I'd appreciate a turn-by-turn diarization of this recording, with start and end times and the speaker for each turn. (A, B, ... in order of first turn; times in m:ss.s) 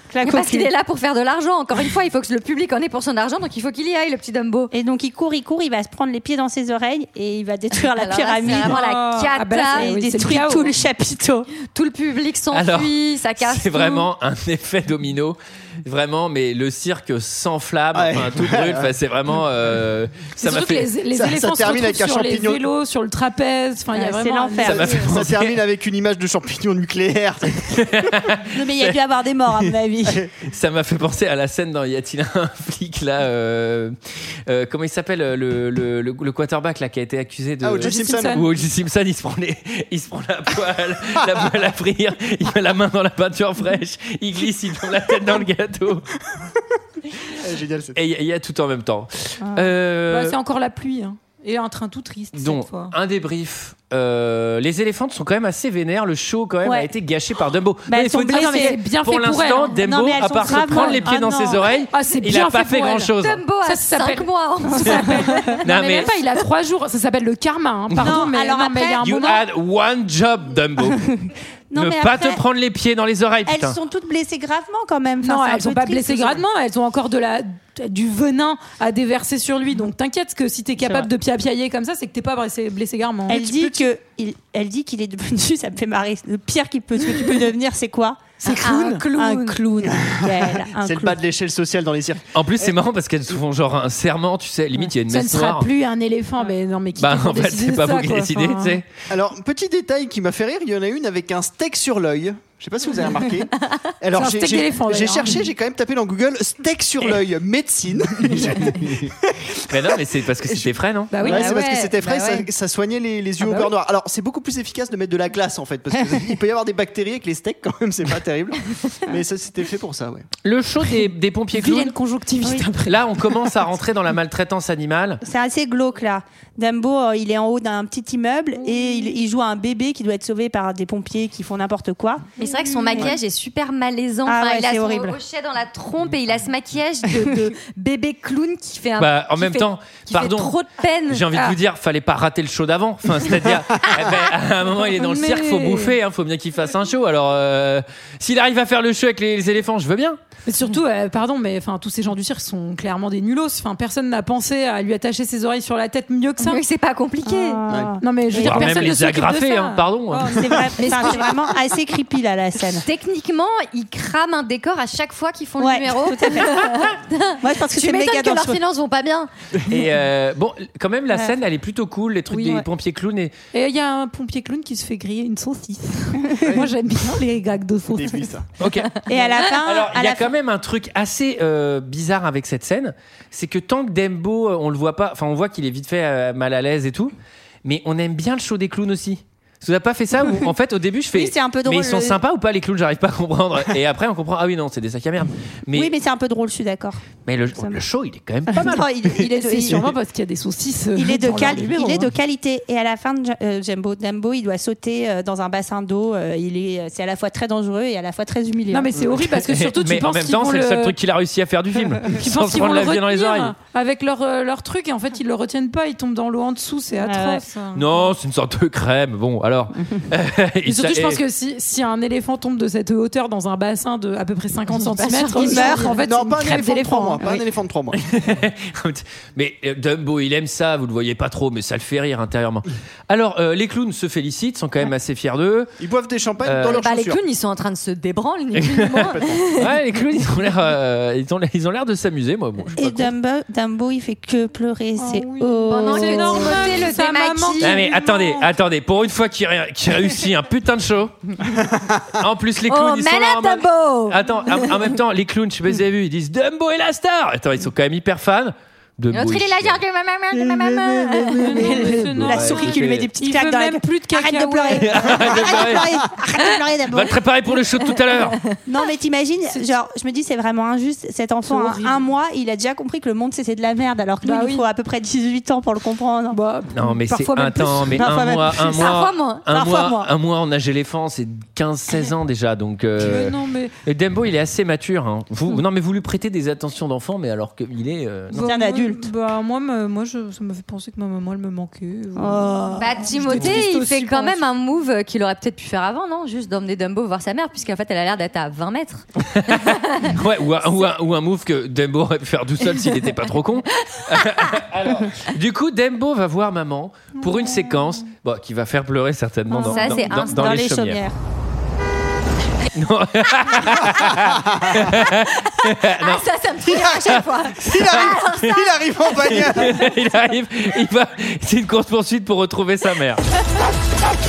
0:00.1-0:00.7 A
0:00.2-0:04.7 B
0:04.7-0:08.8 A
0:07.9-0:10.0 B
0:08.5-0:10.7 C
0:09.7-0:11.5 A
0:11.6-0:14.1 B
0:12.5-0:20.9 D
0:17.9-0:18.9 E
0:20.4-0:24.9 C
0:21.1-0:22.6 E
0:23.9-0:25.0 A
0:24.6-0:25.6 D
0:24.8-0:28.1 E
0:27.7-0:29.0 D
0:28.5-0:30.2 A
0:30.0-0:30.3 E
0:30.4-0:34.0 D
0:34.5-0:46.1 D
0:37.6-0:38.4 E
0:37.8-0:38.5 C
0:47.3-0:48.0 E
0:47.9-0:50.4 D
0:49.4-0:49.7 A
0:50.1-0:52.9 C
0:52.3-1:03.4 D
0:57.9-0:58.8 A
0:58.2-1:09.4 C
0:59.7-1:01.6 A
1:03.2-1:06.4 B
1:04.8-1:05.4 A
1:05.6-1:06.1 D
1:07.9-1:08.2 D
1:08.0-1:09.4 A
1:09.0-1:11.1 D
1:10.8-1:12.4 A
1:11.7-1:13.8 D
1:13.5-1:16.4 A
1:15.2-1:23.7 C
1:20.8-1:21.1 A
1:23.3-1:31.2 A
1:28.4-1:29.1 C
1:28.5-1:29.6 B
1:29.8-1:32.2 E
1:32.3-1:35.7 D
1:35.0-1:38.8 C
1:37.0-1:38.8 D
1:39.1-1:50.6 E
1:44.1-1:45.4 C
1:49.7-1:51.2 D
1:51.1-1:51.7 C
1:51.2-2:00.3 E
1:51.2-1:52.4 B
2:00.4-2:01.9 D
2:01.5-2:03.5 C
2:02.8-2:05.2 D
2:05.2-2:12.3 A
2:08.6-2:09.1 C
2:12.4-2:21.3 B
2:12.5-2:13.1 C
2:14.3-2:15.2 A
2:19.0-2:20.5 D
2:21.1-2:30.2 D
2:25.0-2:26.0 C
2:30.4-2:36.6 C
2:36.4-2:37.6 B
2:37.2-2:38.9 A
2:37.7-2:37.9 E
2:38.0-2:41.1 C
2:38.3-2:40.5 D
2:40.2-2:42.8 A
2:40.8-2:41.2 B
2:42.8-2:49.3 B
2:45.6-2:48.6 A
2:49.6-2:53.3 D
2:52.3-2:52.6 C
2:53.5-2:58.3 C
2:56.4-2:56.7 E
2:57.9-2:58.4 E
2:58.6-3:15.9 D
2:59.1-3:00.3 A
3:11.1-3:12.2 A
3:15.7-3:17.0 A
3:17.2-3:18.9 D
3:17.5-3:17.8 A
3:18.5-3:19.9 A
3:19.1-3:22.1 C
3:20.9-3:29.1 A
3:28.7-3:31.0 C
3:29.2-3:33.5 D
3:32.1-3:38.1 C
3:37.0-3:37.4 A
3:37.7-3:41.2 D
3:40.6-3:47.3 C
3:44.7-3:46.0 B
3:45.4-3:46.0 A
3:46.0-3:48.0 E
3:48.0-3:55.7 D
3:55.8-3:57.2 E
3:56.4-3:56.8 D
3:56.7-3:59.7 B
3:58.6-4:03.1 D
3:58.9-3:59.5 E
4:02.8-4:06.8 A
4:05.0-4:08.5 C
4:05.7-4:07.8 B
4:07.6-4:11.3 D
4:11.6-4:11.9 E
4:12.2-4:19.8 D
4:12.7-4:14.7 B
4:19.1-4:21.7 B
4:20.3-4:21.4 E
4:21.4-4:25.2 C
4:21.5-4:27.2 A
4:21.9-4:23.1 D
4:24.8-4:26.0 D
4:26.9-4:28.4 D
4:28.6-4:36.4 A
4:31.4-4:32.1 C
4:34.2-4:34.7 C
4:36.3-4:38.3 C
4:36.7-4:48.5 D
4:37.9-4:38.9 A
4:38.7-4:39.4 B
4:39.5-4:40.1 A
4:43.0-4:43.8 C
4:48.3-4:54.4 C
4:48.4-4:49.0 A
4:52.2-4:52.8 A
4:52.8-5:00.1 B
4:59.2-5:11.0 D
5:04.0-5:04.6 B
5:09.5-5:11.1 A
5:09.6-5:10.5 B
5:12.7-5:16.2 D
5:14.2-5:14.8 E
5:15.8-5:18.6 B
5:16.6-5:19.9 E
5:17.6-5:18.4 D
5:19.2-5:23.2 D